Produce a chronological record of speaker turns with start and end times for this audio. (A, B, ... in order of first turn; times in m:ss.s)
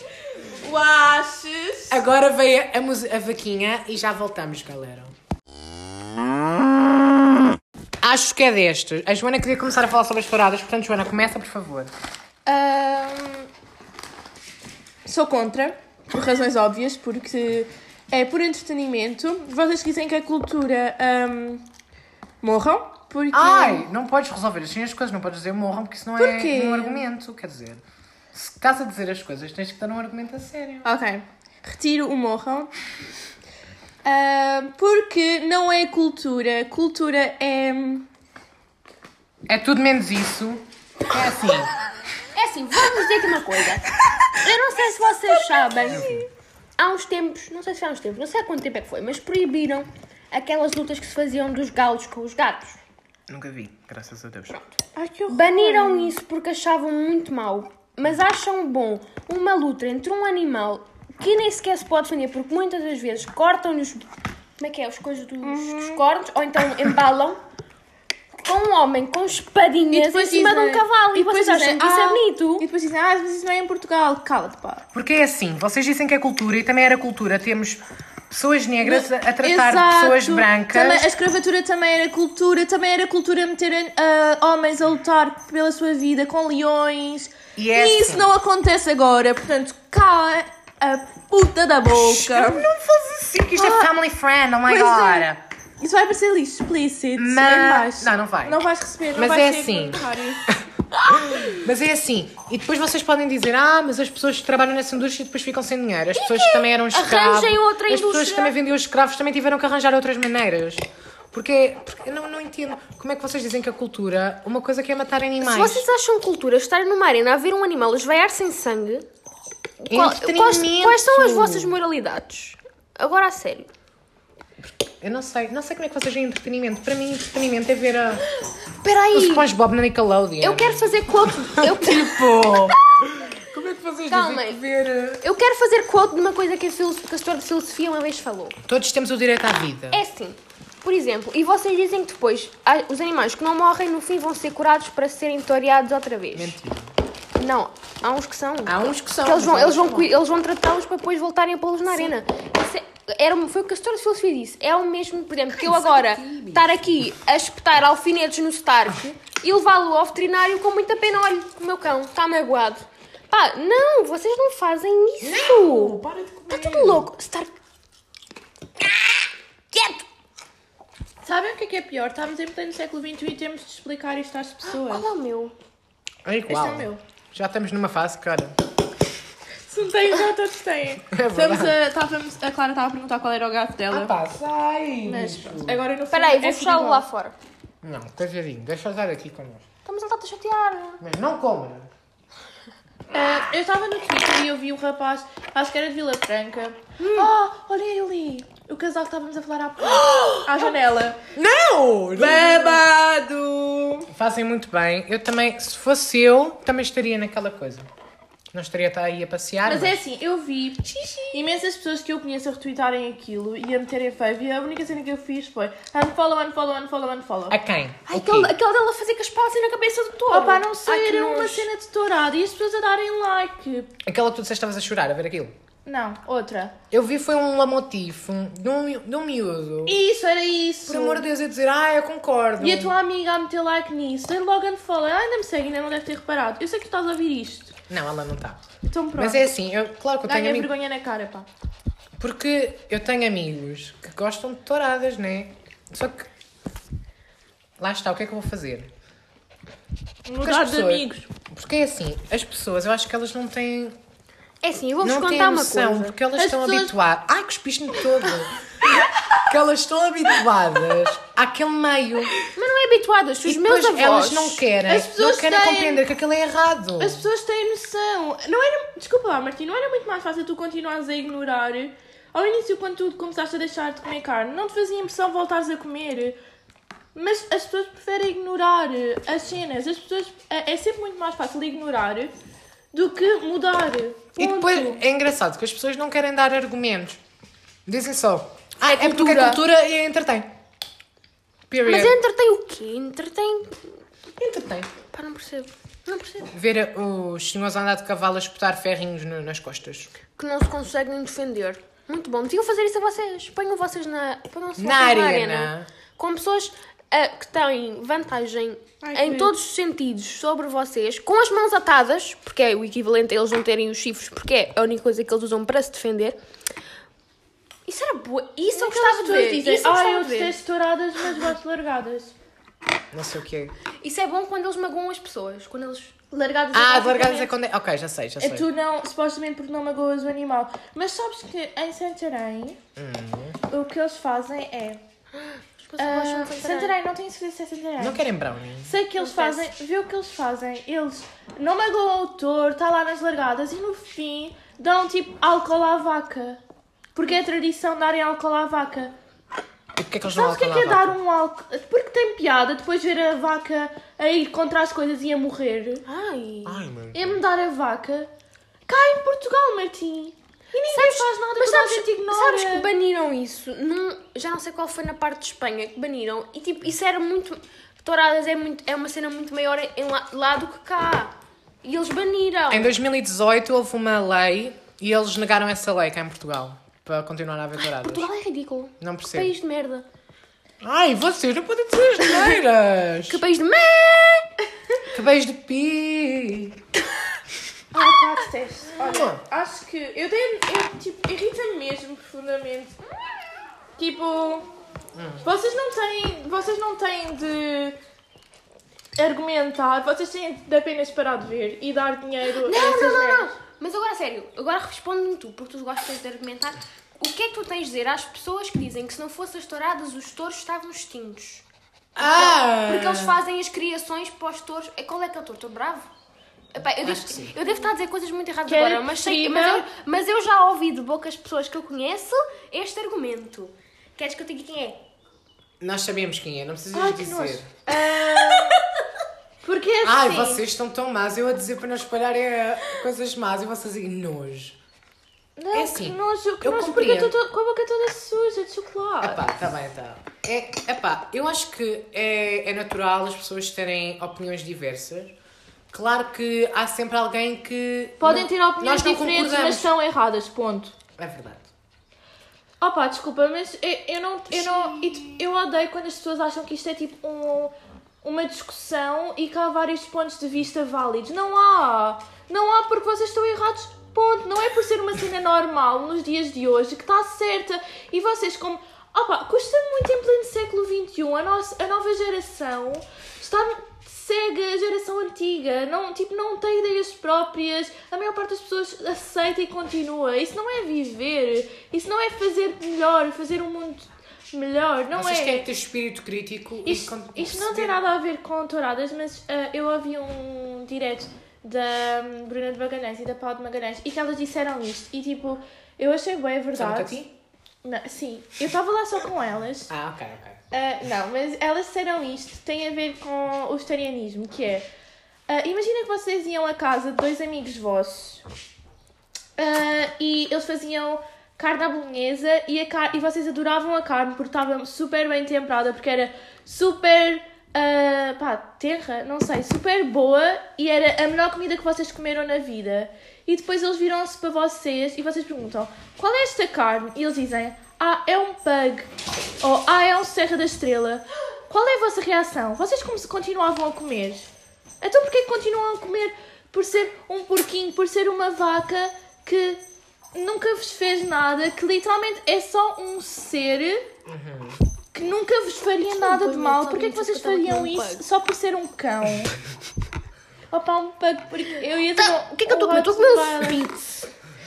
0:00.3-0:02.0 A
0:01.9-0:05.1 B
0:08.0-0:11.9 B
0:12.4-0:13.5 A
0:15.0-0:21.6 A
0:22.4-0:23.8 A
0:23.3-0:27.8 B
0:26.2-0:27.0 A
0:28.3-0:30.8 B
0:30.8-0:32.7 A
0:34.0-0:38.1 A
0:39.5-0:41.7 B
0:42.3-0:46.2 C
0:45.9-0:46.2 A
0:46.8-0:52.8 C
0:53.3-0:54.6 B
0:54.9-0:56.2 A
0:55.3-1:04.1 C
1:04.6-1:07.4 C
1:05.4-1:06.0 A
1:08.3-1:12.7 C
1:09.9-1:14.8 A
1:14.9-1:21.1 B
1:18.8-1:32.7 A
1:27.6-1:28.3 B
1:31.9-1:35.4 B
1:33.6-1:33.9 A
1:34.6-1:35.3 A
1:35.8-1:40.5 A
1:37.2-1:38.6 B
1:39.1-1:55.8 B
1:46.1-1:48.5 C
1:55.4-1:59.0 C
1:59.8-2:03.7 C
1:59.9-2:01.8 B
2:04.6-2:08.3 B
2:08.8-2:09.5 C
2:09.1-2:15.2 B
2:10.4-2:12.7 C
2:14.1-2:14.6 C
2:15.2-2:18.6 C
2:18.7-2:20.0 B
2:19.9-2:26.6 C
2:26.3-2:27.0 B
2:27.3-2:47.5 C
2:28.6-2:30.2 B
2:35.5-2:36.9 B
2:45.2-2:47.1 B
2:49.7-2:50.0 C
2:51.2-2:55.1 A
2:54.6-2:55.5 C
2:56.2-2:58.6 B
2:56.5-2:57.0 A
2:59.7-3:04.1 A
3:01.1-3:01.8 B
3:03.9-3:05.8 B
3:05.0-3:07.0 A
3:06.1-3:07.4 C
3:07.8-3:09.6 B
3:09.8-3:11.0 C
3:11.0-3:11.9 B
3:13.1-3:21.2 A
3:17.0-3:17.3 C
3:19.9-3:20.5 B
3:21.3-3:22.8 B
3:22.1-3:24.1 A
3:24.1-3:27.9 B
3:28.5-3:30.0 B
3:29.6-3:37.6 A
3:31.1-3:31.3 C
3:37.5-3:38.5 B
3:38.1-3:41.7 C
3:40.3-3:43.9 A
3:44.0-3:45.5 B
3:45.8-3:46.7 A
3:46.9-3:50.0 B
3:49.8-3:51.2 A
3:50.8-3:52.9 B
3:52.6-3:57.8 A
3:57.9-3:58.6 B
3:58.9-3:59.5 A
3:59.2-4:00.7 B
4:00.2-4:01.5 A
4:02.2-4:06.3 B
4:07.8-4:08.9 B
4:10.3-4:11.3 A
4:10.4-4:14.0 B
4:14.6-4:16.2 C
4:15.0-4:18.6 B
4:16.4-4:16.9 A
4:19.4-4:22.3 B
4:22.4-4:24.6 C
4:23.4-4:27.3 B
4:24.8-4:26.0 A
4:27.0-4:36.4 A
4:37.1-4:42.3 A
4:42.9-4:45.0 A
4:44.4-4:47.2 B
4:47.8-4:50.5 B
4:48.8-4:49.6 C
4:51.7-4:52.2 B
4:51.8-4:53.9 C
4:54.4-4:54.9 B
4:55.1-4:56.5 C
4:56.5-5:00.1 B
5:00.4-5:16.4 C
5:04.8-5:05.9 B
5:09.0-5:09.5 A
5:17.9-5:20.6 C
5:18.7-5:22.3 A
5:23.1-5:23.7 B
5:24.0-5:26.1 C
5:26.3-5:27.5 A
5:26.7-5:28.7 B
5:28.4-5:32.8 A
5:33.0-5:33.6 B
5:33.7-5:35.0 A
5:35.4-5:36.9 C
5:36.0-5:38.3 A
5:38.0-5:38.9 B
5:38.8-5:46.6 A
5:39.2-5:39.7 C
5:47.1-5:49.1 A
5:50.0-5:51.2 B
5:50.3-5:56.0 A
5:56.0-5:56.8 C
5:56.6-5:57.4 B
5:57.1-5:58.3 A
5:58.9-6:02.9 A
6:00.9-6:12.9 C
6:12.7-6:18.3 B
6:17.8-6:20.0 C
6:19.0-6:19.5 B
6:20.8-6:23.4 B
6:23.3-6:24.5 C
6:25.1-6:26.8 B
6:27.9-6:33.0 A
6:29.0-6:29.4 B
6:34.0-6:34.7 A
6:35.1-6:35.4 B
6:35.4-6:38.0 A
6:39.2-6:43.5 A
6:42.6-6:51.6 C
6:52.2-6:53.4 B
6:52.2-6:56.1 C
6:56.7-7:05.0 C
6:57.0-6:57.6 B
6:58.7-6:59.9 A
7:05.8-7:07.7 B
7:06.9-7:08.8 A
7:08.4-7:08.8 C
7:09.6-7:10.6 A
7:10.0-7:14.8 B
7:15.6-7:19.4 A
7:15.7-7:17.3 B
7:19.2-7:25.3 B
7:25.9-7:29.9 B
7:28.2-7:31.0 A
7:31.2-7:31.7 B
7:32.8-8:05.7 A
7:34.5-7:35.4 B
8:05.1-8:08.0 B
8:06.8-8:17.3 A
8:16.7-8:17.3 B
8:17.8-8:19.9 A
8:19.9-8:20.6 B
8:20.7-8:24.9 A
8:25.5-8:28.4 A
8:29.6-8:49.1 A
8:49.6-8:54.5 A
8:55.0-8:59.8 A
9:00.3-9:04.1 A
9:04.2-9:04.8 B
9:05.1-9:09.6 A
9:06.1-9:08.2 C
9:10.7-9:14.0 A
9:12.2-9:14.2 C